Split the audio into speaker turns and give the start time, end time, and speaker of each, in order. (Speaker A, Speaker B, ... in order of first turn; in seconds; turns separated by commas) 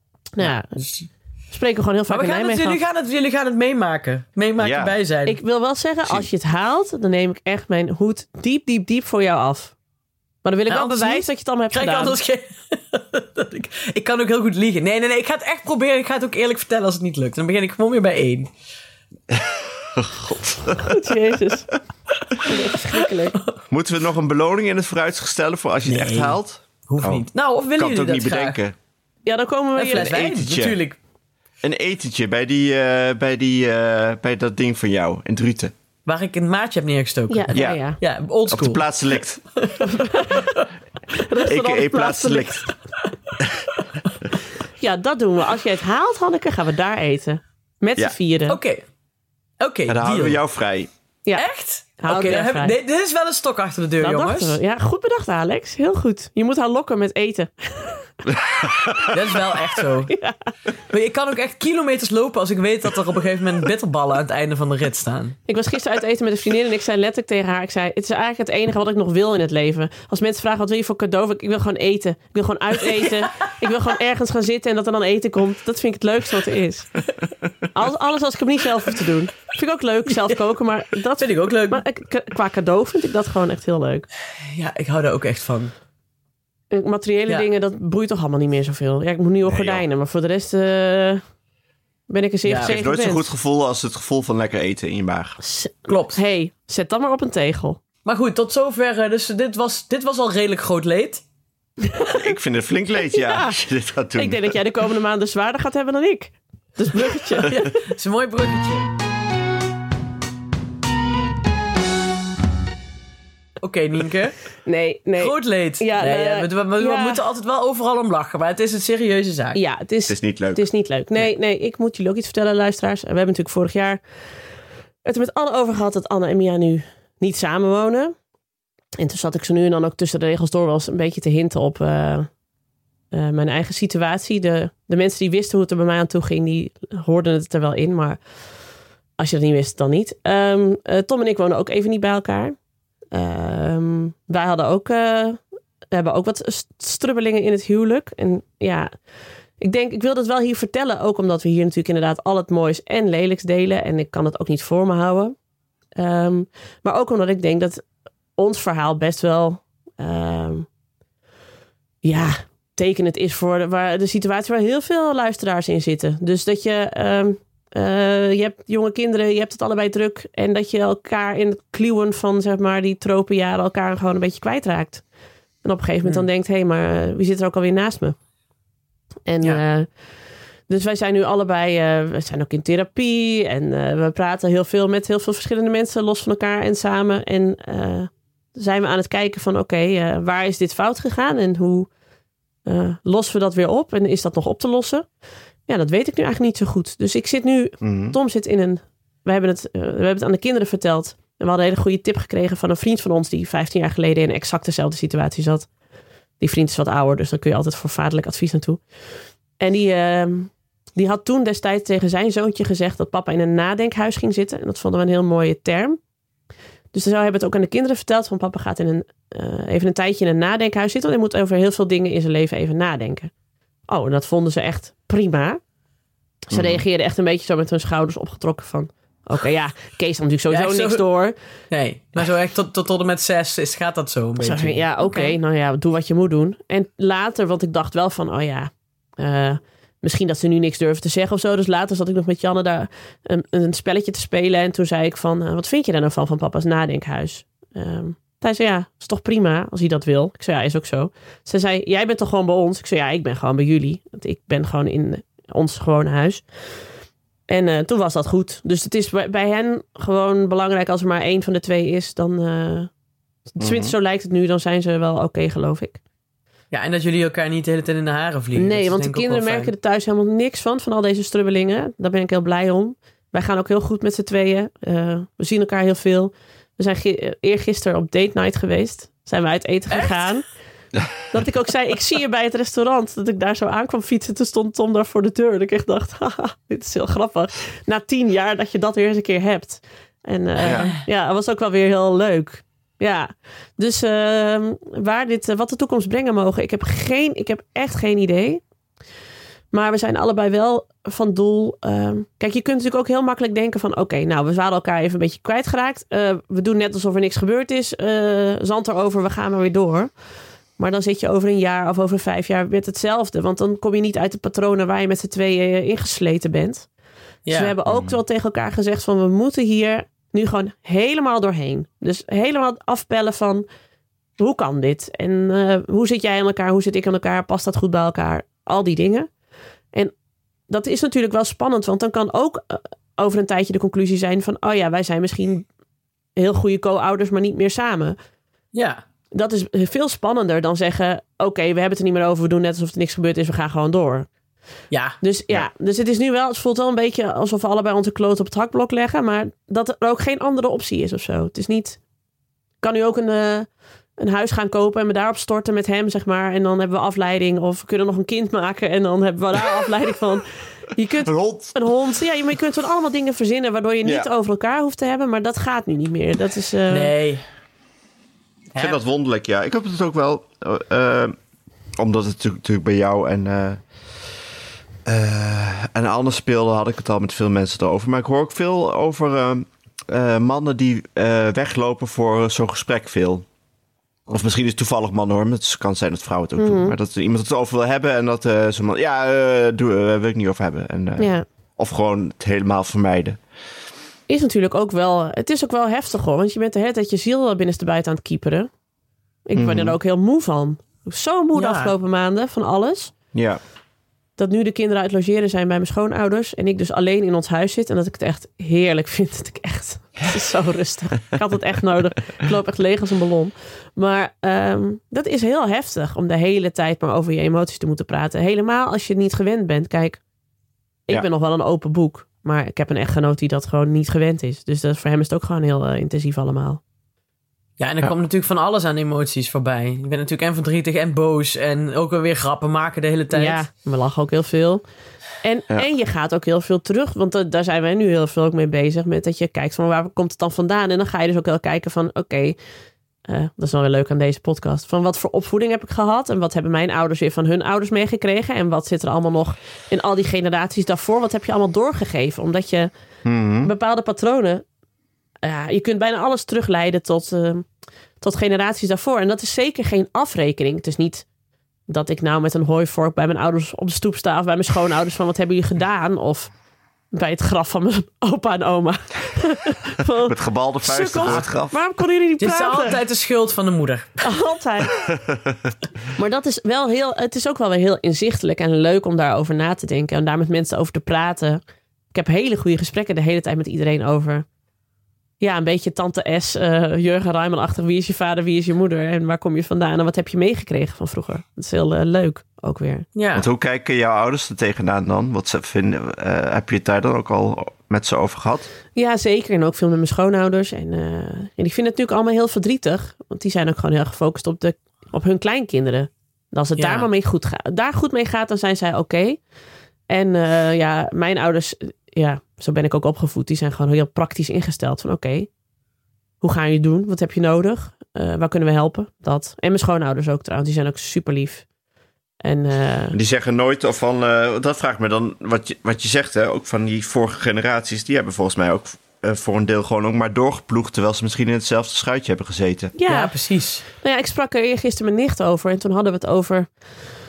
Speaker A: 0.3-0.7, Speaker B: 0.8-1.1, Speaker A: 1.5-2.8, Speaker B: 2.1-5.4, Speaker C: 4.6-5.0, Speaker A: 5.3-9.7, Speaker A: 10.4-12.2, Speaker B: 10.7-18.5, Speaker C: 19.3-21.0, Speaker A: 20.8-21.7, Speaker B: 22.3-23.6, Speaker A: 22.4-23.4, Speaker C: 23.7-28.8, Speaker B: 25.9-28.6, Speaker A: 29.3-30.1, Speaker B: 29.8-31.0, Speaker C: 29.9-30.8, Speaker C: 31.6-35.7, Speaker B: 36.1-38.9, Speaker A: 37.3-38.0, Speaker C: 37.5-37.8, Speaker C: 38.5-39.4, Speaker B: 39.6-40.6, Speaker A: 39.9-40.5, Speaker A: 41.1-42.7, Speaker C: 41.5-42.7, Speaker A: 44.8-48.6, Speaker B: 48.5-48.8, Speaker B: 49.6-50.4, Speaker C: 49.9-50.9, Speaker B: 51.4-54.6, Speaker A: 52.0-52.7, Speaker A: 54.0-58.1, Speaker C: 58.3-59.1, Speaker B: 59.1-60.1, Speaker A: 60.1-60.4, Speaker B: 60.9-65.4, Speaker A: 65.5-77.0, Speaker B: 72.9-73.5, Speaker A: 77.7-84.1, Speaker B: 81.2-81.8, Speaker B: 84.5-85.7, Speaker A: 86.7-91.2, Speaker C: 89.5-89.8, Speaker A: 92.1-93.3, Speaker B: 92.5-92.8, Speaker C: 92.6-95.4, Speaker A: 95.4-97.8, Speaker B: 95.9-96.2, Speaker B: 98.0-101.2, Speaker A: 101.8-102.2, Speaker C: 102.1-104.6, Speaker A: 103.0-103.6, Speaker A: 104.2-107.6, Speaker B: 107.3-108.9, Speaker B: 113.6-114.4, Speaker A: 114.7-117.2, Speaker B: 115.2-119.6, Speaker A: 119.5-124.0, Speaker C: 120.1-120.7, Speaker A: 125.0-128.1, Speaker A: 129.0-132.3, Speaker A: 133.1-138.2, Speaker A: 139.2-142.6, Speaker A: 143.1-148.9, Speaker A: 149.6-155.3, Speaker A: 156.0-157.8, Speaker A: 158.4-160.7, Speaker A: 162.0-175.0, Speaker A: 175.6-178.2, Speaker A: 179.3-179.9, Speaker A: 180.7-191.9, Speaker A: 192.7-195.1, Speaker A: 195.7-205.7, Speaker C: 197.8-198.2, Speaker A: 206.4-208.8, Speaker A: 209.6-216.0, Speaker A: 216.9-223.3, Speaker A: 223.9-225.6, Speaker A: 226.5-231.3, Speaker C: 226.5-226.8, Speaker B: 230.5-231.1, Speaker B: 231.7-235.4, Speaker A: 234.4-256.4, Speaker A: 257.5-262.9, Speaker A: 263.5-266.0, Speaker C: 263.6-263.9, Speaker B: 266.7-269.7, Speaker A: 268.6-280.5, Speaker B: 279.9-280.3, Speaker A: 281.3-298.6, Speaker C: 290.6-290.9, Speaker B: 290.6-291.0, Speaker A: 299.7-310.1, Speaker A: 310.8-316.9, Speaker B: 317.5-317.7, Speaker A: 317.5-323.7, Speaker C: 317.9-318.2, Speaker A: 324.4-329.3, Speaker A: 330.7-335.7, Speaker A: 336.4-338.2, Speaker B: 338.7-339.0, Speaker A: 339.3-344.3, Speaker B: 344.9-345.2, Speaker A: 345.2-352.0, Speaker A: 352.8-353.7, Speaker A: 354.2-367.1, Speaker C: 361.2-361.8, Speaker C: 364.0-364.3, Speaker B: 366.9-367.4, Speaker B: 368.7-369.0, Speaker C: 368.8-371.4, Speaker C: 372.0-373.8, Speaker C: 375.1-383.4, Speaker C: 384.3-393.4, Speaker A: 386.6-386.9, Speaker A: 391.2-391.4, Speaker A: 394.3-398.7, Speaker A: 399.5-403.1, Speaker C: 399.6-400.0, Speaker B: 401.6-401.9, Speaker C: 403.3-403.6, Speaker A: 404.4-420.2, Speaker A: 421.1-426.8, Speaker B: 427.8-433.6, Speaker A: 433.3-434.8, Speaker A: 435.4-442.6, Speaker A: 443.3-452.9, Speaker C: 453.2-453.7, Speaker A: 453.6-454.6, Speaker A: 455.4-457.7, Speaker A: 458.2-461.3, Speaker A: 461.9-466.5, Speaker A: 467.1-473.0, Speaker C: 470.2-471.8, Speaker B: 472.4-474.3, Speaker A: 474.2-475.0, Speaker C: 475.0-475.6, Speaker A: 476.2-481.6, Speaker A: 482.1-484.5, Speaker A: 485.4-493.1, Speaker B: 493.1-493.5, Speaker C: 493.4-498.7, Speaker A: 499.0-509.4, Speaker B: 506.8-507.1, Speaker A: 510.1-515.5, Speaker A: 516.4-521.7, Speaker A: 522.4-523.2, Speaker C: 523.1-532.9, Speaker A: 533.0-533.4, Speaker B: 533.1-533.8, Speaker A: 533.9-536.7